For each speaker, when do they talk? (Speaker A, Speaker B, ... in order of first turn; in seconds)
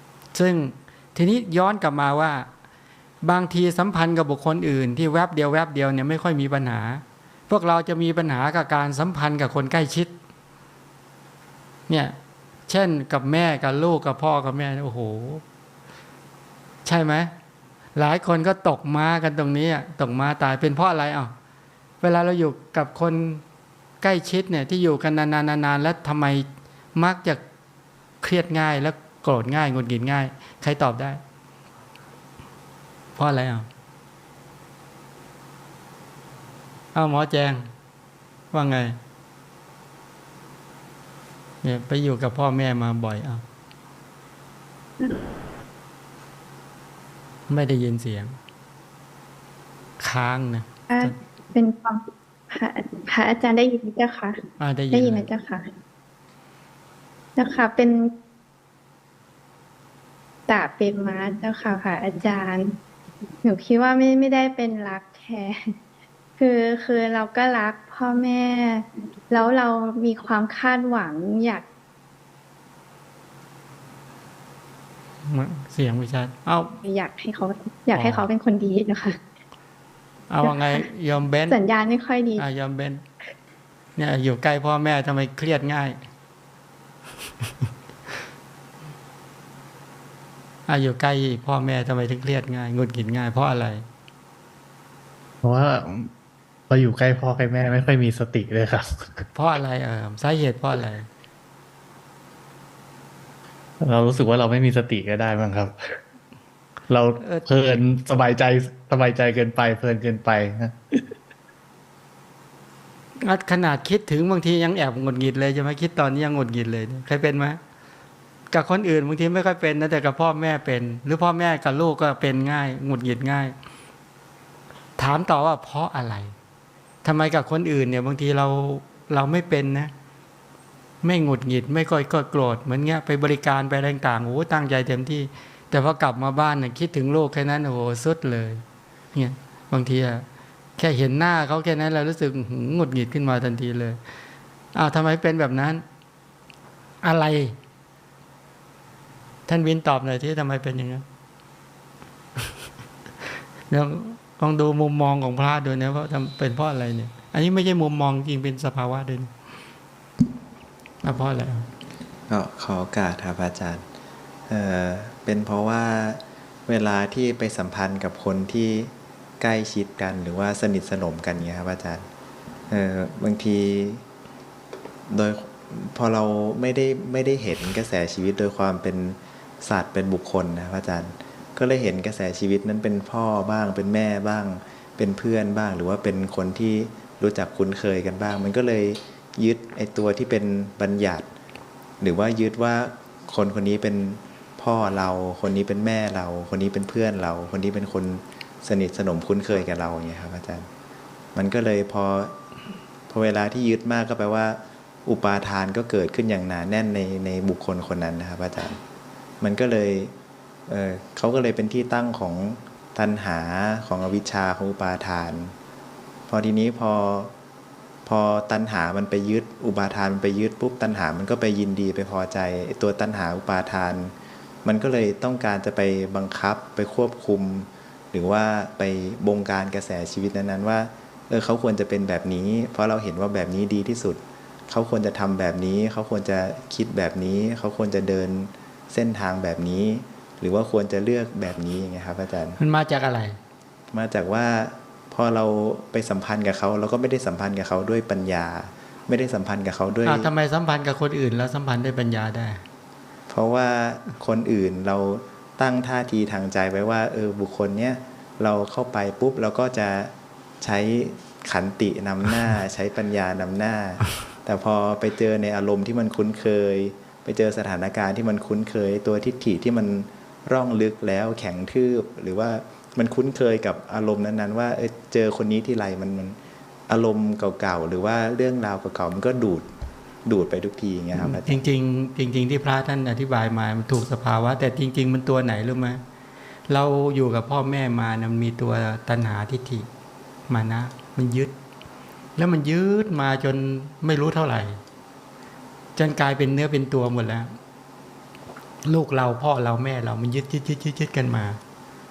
Speaker A: 0.3-2.5, 3.2-10.1, 11.9-12.2, 12.7-15.4, 16.9-17.3, 17.9-21.3, 22.0-23.4, 24.0-27.4, 28.2-31.2, 33.2-33.7, 36.9-37.7, 38.5-39.0, 41.6-43.4, 47.5-48.4, 50.0-51.1, 54.6-55.3, 75.2-76.8, 78.0-78.3, 80.3-81.6, 82.4-83.0, 84.0-86.0, 90.7-93.9, 99.3-101.1, 113.2-117.6, 118.5-123.5, 125.0-126.3, 127.0-129.9, 131.0-138.6, 139.1-140.2, 140.8-144.0, 144.7-145.8, 147.0-147.6, 149.5-151.0, 153.7-159.3, 161.0-161.7, 242.6-243.4, 250.1-252.6, 281.1-286.0, 286.7-289.9, 290.5-291.5, 292.4-294.8, 296.0-297.5, 298.9-301.6
Speaker B: 45.0-45.3, 50.9-54.4, 54.9-55.7, 57.4-58.1, 60.5-62.8, 63.4-65.7, 66.4-71.7, 76.8-79.2, 80.4-80.8, 81.5-82.5
Speaker C: 95.4-96.1, 96.7-99.3, 103.8-106.0, 106.9-111.0
Speaker D: 162.3-163.8, 164.5-172.1, 172.7-174.0, 175.1-191.3, 192.0-200.7, 201.3-202.3, 203.1-208.8, 209.4-210.1, 210.7-215.6, 216.3-217.3, 218.1-224.1, 224.6-242.6, 243.9-250.3, 253.3-276.4, 276.9-279.7, 280.2-281.6